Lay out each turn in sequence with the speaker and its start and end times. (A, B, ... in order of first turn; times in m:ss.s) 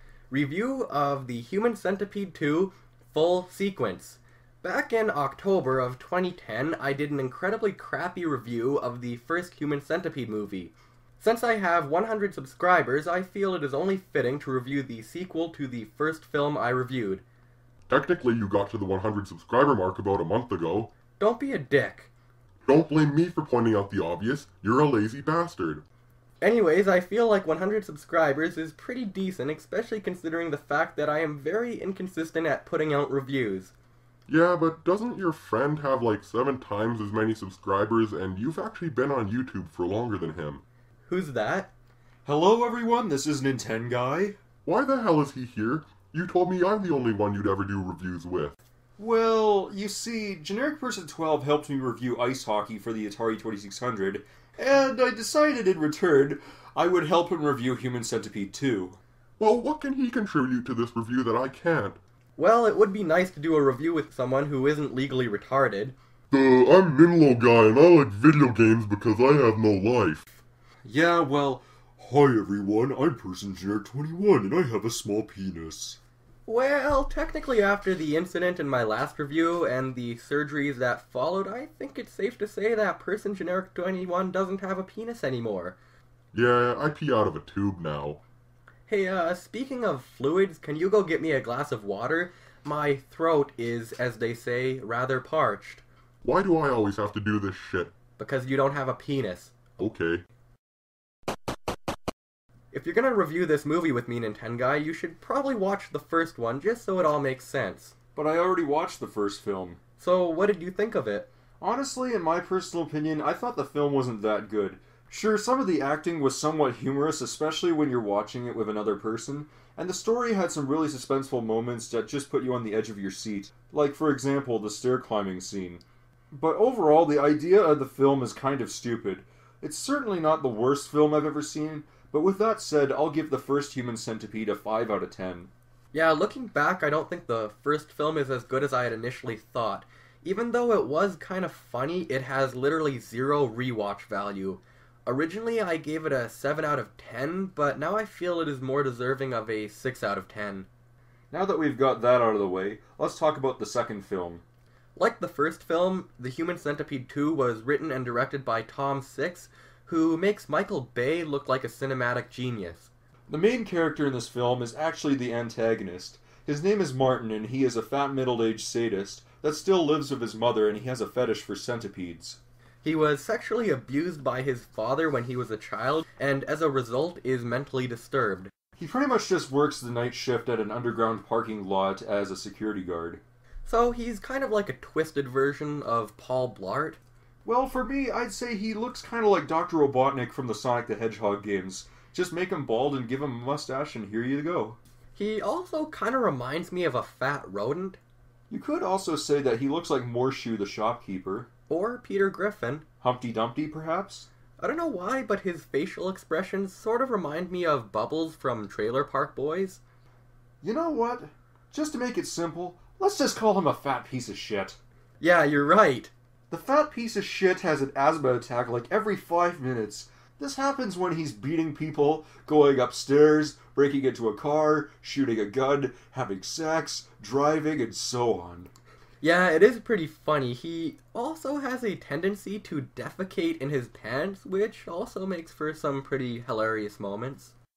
0:00.3-0:17.2 A
0:17.9-0:20.9 B
0:21.2-0:22.1 A
0:22.6-0:25.8 B
0:26.4-0:33.7 A
0:34.3-0:40.6 B
0:41.1-0:41.7 A
0:42.2-0:44.4 C
0:44.6-0:48.5 B
0:49.0-0:59.0 C
0:59.4-1:02.0 B
1:02.4-1:06.0 A
1:06.3-1:10.3 B
1:10.8-1:16.0 C
1:16.5-1:25.8 A
1:26.3-1:28.2 B
1:28.9-1:35.8 A
1:36.2-1:37.9 B
1:38.2-1:39.6 A
1:39.8-1:40.2 B
1:42.7-1:47.9 A
1:48.1-1:49.8 C
1:50.0-1:51.3 A
1:51.6-2:15.5 C
2:15.9-2:30.7 A
2:31.3-2:34.4 C
2:35.0-2:42.9 A
2:43.3-2:52.4 C
2:52.8-2:58.5 A
2:58.8-3:03.2 C
3:03.6-3:07.0 A
3:07.4-3:14.8 C
3:15.2-3:18.0 A
3:18.5-3:21.5 C
3:21.7-3:22.8 A
3:23.0-3:24.3 C
3:24.6-3:29.8 A
3:30.6-3:34.8 C
3:35.2-3:36.1 A
3:36.5-3:48.7 C
3:49.2-3:57.5 A